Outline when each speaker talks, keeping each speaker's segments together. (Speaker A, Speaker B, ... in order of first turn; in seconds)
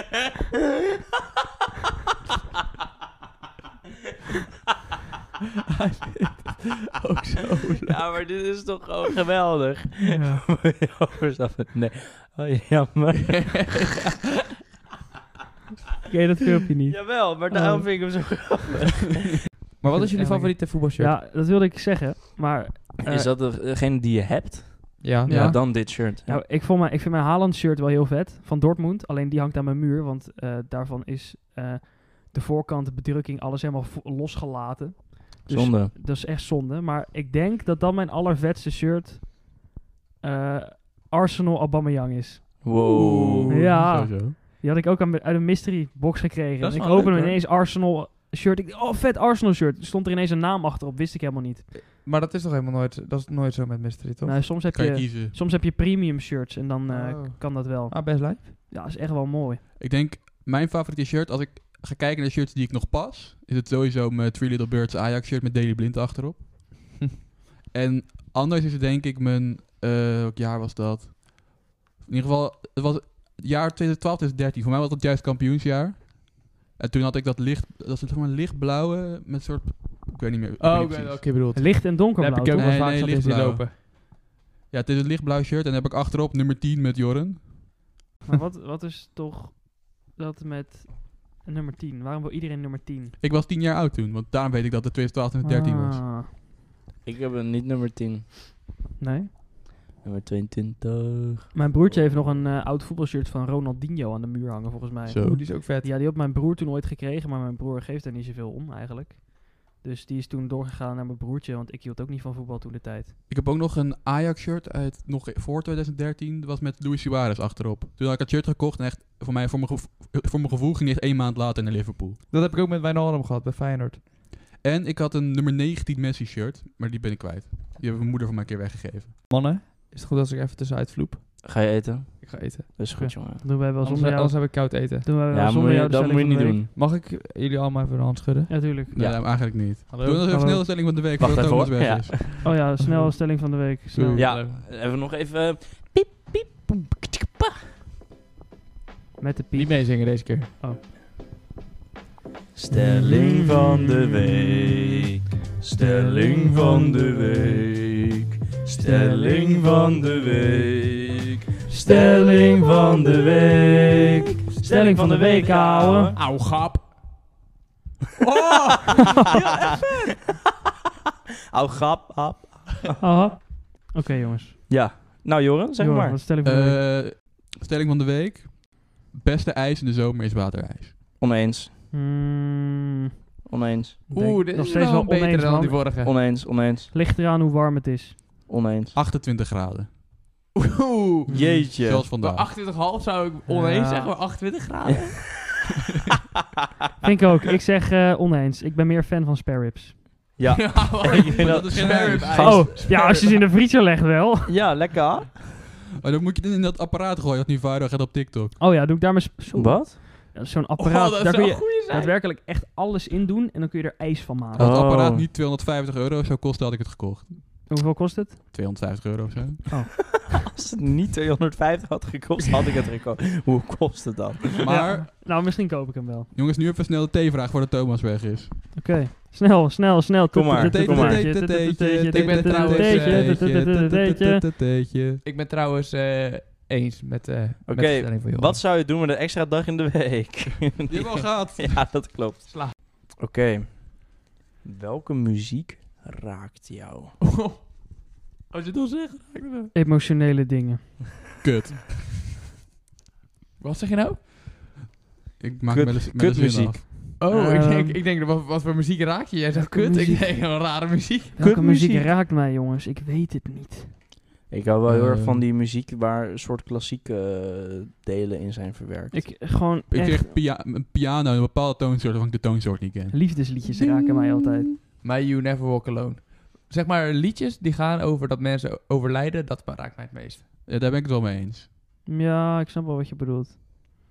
Speaker A: 5.8-8.2, 13.3-14.2, 19.8-21.1, 25.0-25.3, 42.8-43.6, 46.6-47.4, 51.7-54.4, 56.9-58.5, 80.6-83.7, 105.2-105.8, 122.3-124.0, 129.3-131.4, 132.2-132.7, 133.8-135.1, 136.7-138.6, 139.9-140.3, 142.4-143.2, 144.0-144.6, 149.5-150.5, 166.2-166.9, 168.2-169.9, 184.1-186.1, 190.6-191.6, 192.2-195.5, 200.5-203.4, 210.8-212.1, 232.1-233.4, 235.2-238.6, 247.2-249.7, 253.6-254.2, 257.2-261.4, 264.9-265.4, 274.8-280.4
Speaker B: 7.8-13.8, 16.9-19.4, 23.0-26.4, 35.5-35.9, 42.6-43.7, 97.0-98.3, 100.0-102.4, 131.4-133.4, 135.3-136.7, 138.9-139.2, 141.2-142.3, 144.2-147.5, 152.5-155.1, 155.6-158.0, 158.6-166.2, 168.4-168.7, 169.3-169.6, 171.5-173.0, 174.7-176.2, 181.2-181.7, 183.4-184.0, 186.0-186.9, 188.5-188.9, 191.3-192.1, 200.4-202.8, 204.5-205.4, 209.5-210.0, 214.6-215.3, 220.3-224.5, 230.3-231.3, 237.7-247.1, 255.7-257.2, 261.4-262.1, 264.5-269.2
Speaker C: 10.1-10.4, 16.1-18.3, 19.9-23.3, 25.2-39.6, 40.2-42.6, 43.5-51.7, 54.2-59.6, 81.5-82.7, 88.3-93.1, 95.4-96.3, 99.0-99.3, 101.5-113.1, 132.9-136.6, 138.5-138.9, 140.3-140.7, 142.4-144.3, 149.2-150.8, 161.9-162.2, 164.6-166.1, 173.0-174.6, 175.8-176.8, 181.9-182.9, 184.1-186.0, 186.9-188.2, 191.3-191.6, 193.5-194.1, 197.0-200.0, 202.4-204.6, 208.6-214.7, 217.7-218.4, 219.7-220.2, 224.6-226.3, 228.7-234.4, 249.7-250.9, 257.3-258.0, 259.5-260.3, 261.4-263.9, 269.1-270.4, 273.1-274.7, 282.1-283.6
Speaker D: 25.3-25.6, 43.6-44.4, 54.7-55.4, 59.8-66.9, 67.7-81.3, 82.5-87.8, 93.2-96.1, 105.1-105.4, 113.3-122.2, 124.6-129.3, 138.9-142.2, 143.9-144.2, 176.4-181.0, 188.9-190.0, 191.8-192.5, 201.4-202.7, 206.0-208.6, 214.6-217.6, 218.5-219.6, 224.6-225.1, 226.3-228.6, 230.6-235.2, 240.9-241.8, 251.4-252.1, 255.4-257.0, 269.9-273.2, 280.7-281.7